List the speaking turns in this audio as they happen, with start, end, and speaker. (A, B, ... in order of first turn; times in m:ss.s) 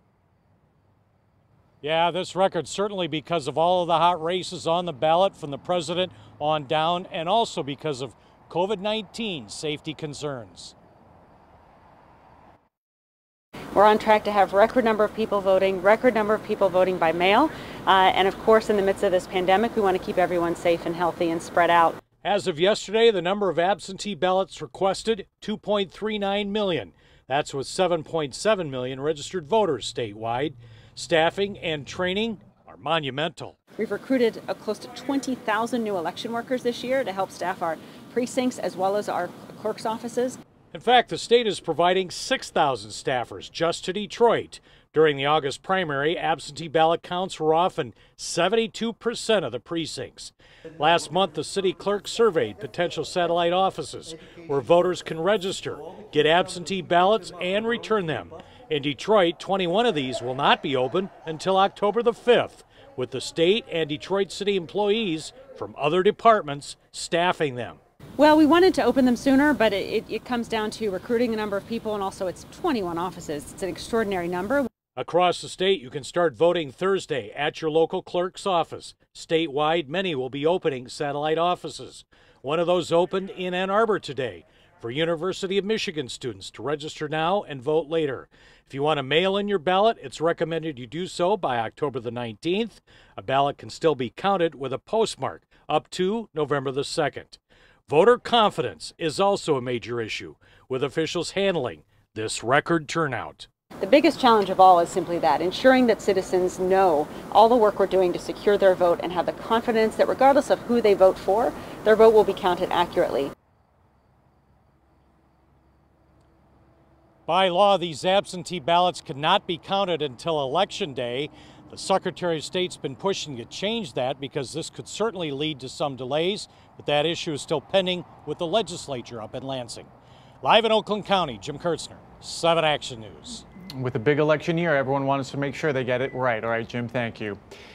0:01.8-0:10.7 A
0:13.7-0:22.0 B
0:22.2-0:33.6 A
0:33.8-0:40.4 B
0:40.7-1:07.8 A
1:08.2-1:14.7 B
1:15.0-1:43.5 A
1:43.8-1:53.3 B
1:57.3-2:09.9 A
2:10.4-2:13.4 A
2:13.7-2:17.4 C